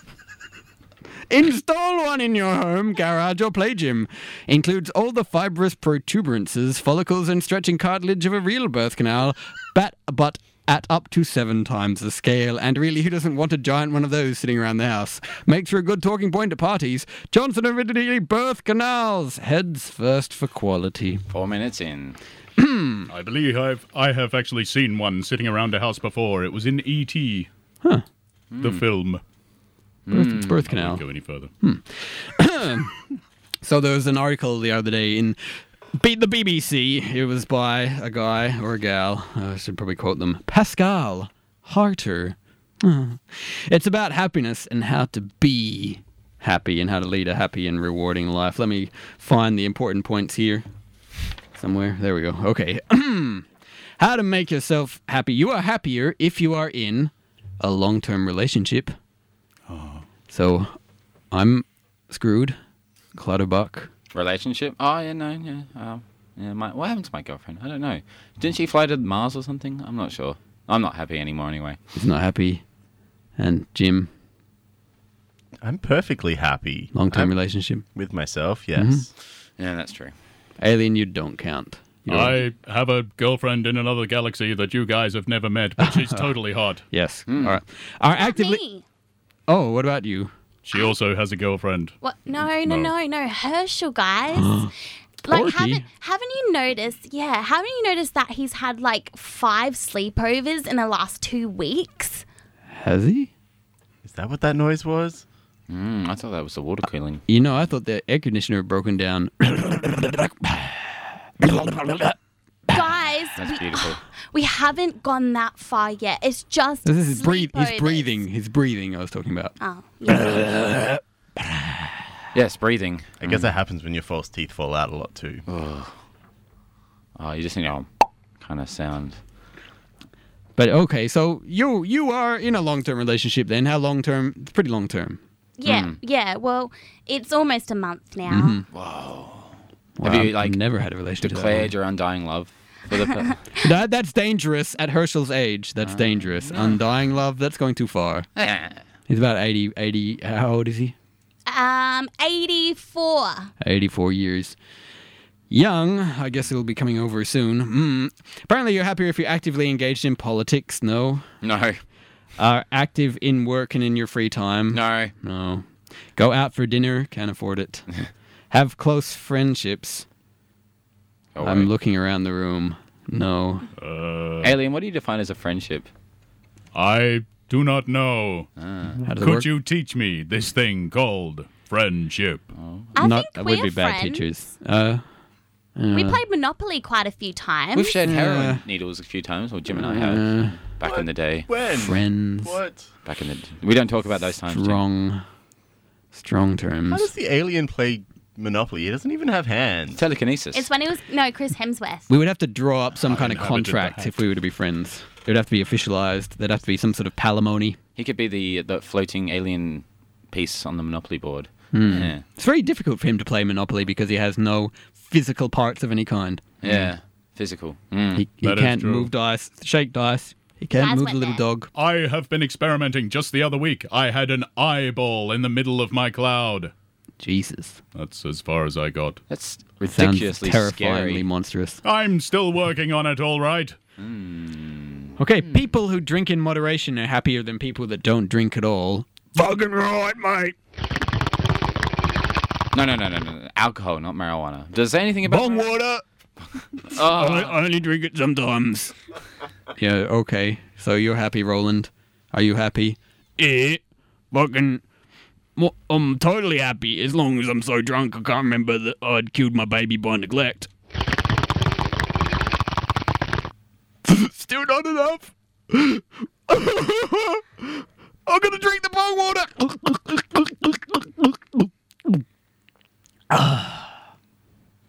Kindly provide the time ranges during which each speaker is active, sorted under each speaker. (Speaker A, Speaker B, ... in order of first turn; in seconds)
Speaker A: 1.3-21.2, 22.6-23.1, 30.1-31.0, 31.6-33.0, 33.6-35.4, 36.0-50.6, 51.5-53.5, 54.0-59.0, 60.3-60.8, 61.3-62.6, 63.1-63.9, 71.9-72.6, 73.4-74.1, 76.9-77.8, 78.8-79.0, 80.6-82.4, 85.8-86.3, 86.9-88.6, 89.5-90.3, 94.3-94.7, 95.3-95.8, 102.7-103.3, 107.3-112.2, 116.8-119.5, 120.1-121.9, 130.6-135.2, 138.3-138.7, 140.0-141.7, 143.6-148.3, 149.1-150.9, 153.6-154.6, 155.5-161.2, 162.4-167.9, 168.5-170.1, 171.4-173.7, 179.0-179.5, 183.0-185.0, 185.8-186.2, 188.0-188.6, 189.7-190.6, 191.8-192.6, 194.4-195.2, 196.1-197.1, 202.1-207.8, 211.7-216.8, 218.2-221.7, 227.2-227.8, 229.9-231.8, 235.2-240.5, 245.2-246.0, 246.9-248.9, 249.8-254.8, 255.6-260.7, 264.0-272.2, 273.3-273.9
Speaker B: 21.3-22.2, 28.5-28.8, 30.1-30.6, 64.1-71.8, 79.6-80.1, 87.3-87.6, 105.7-107.2, 113.4-114.0, 122.3-123.4, 125.5-125.9, 127.2-127.9, 128.4-129.2, 135.6-136.0, 138.7-140.6, 141.2-143.3, 145.8-146.8, 148.4-148.8, 161.4-161.8, 164.7-165.1, 171.3-171.7, 174.4-175.9, 178.6-179.0, 182.5-182.9, 187.7-191.5, 193.0-194.8, 199.9-200.7, 207.9-212.2, 216.6-218.2, 229.3-231.2, 234.0-235.7, 242.7-245.7, 246.6-247.6
Speaker C: 23.1-27.5, 28.6-29.2, 30.7-31.5, 59.7-60.0, 82.1-86.8, 90.6-91.9, 92.6-92.9, 173.8-174.5, 176.7-178.5, 179.1-182.4, 203.0-204.1, 218.4-219.1, 221.7-226.7, 227.9-229.2, 231.8-233.8
Speaker D: 75.6-77.3, 77.9-79.1, 104.0-105.2, 123.2-125.4, 190.8-192.9, 196.9-200.0
Speaker E: 88.2-88.8, 92.0-94.7, 95.2-102.2, 112.7-118.2, 119.6-120.6, 135.6-138.6, 151.5-153.5, 182.9-184.2, 185.9-187.9, 200.5-202.1, 220.8-221.4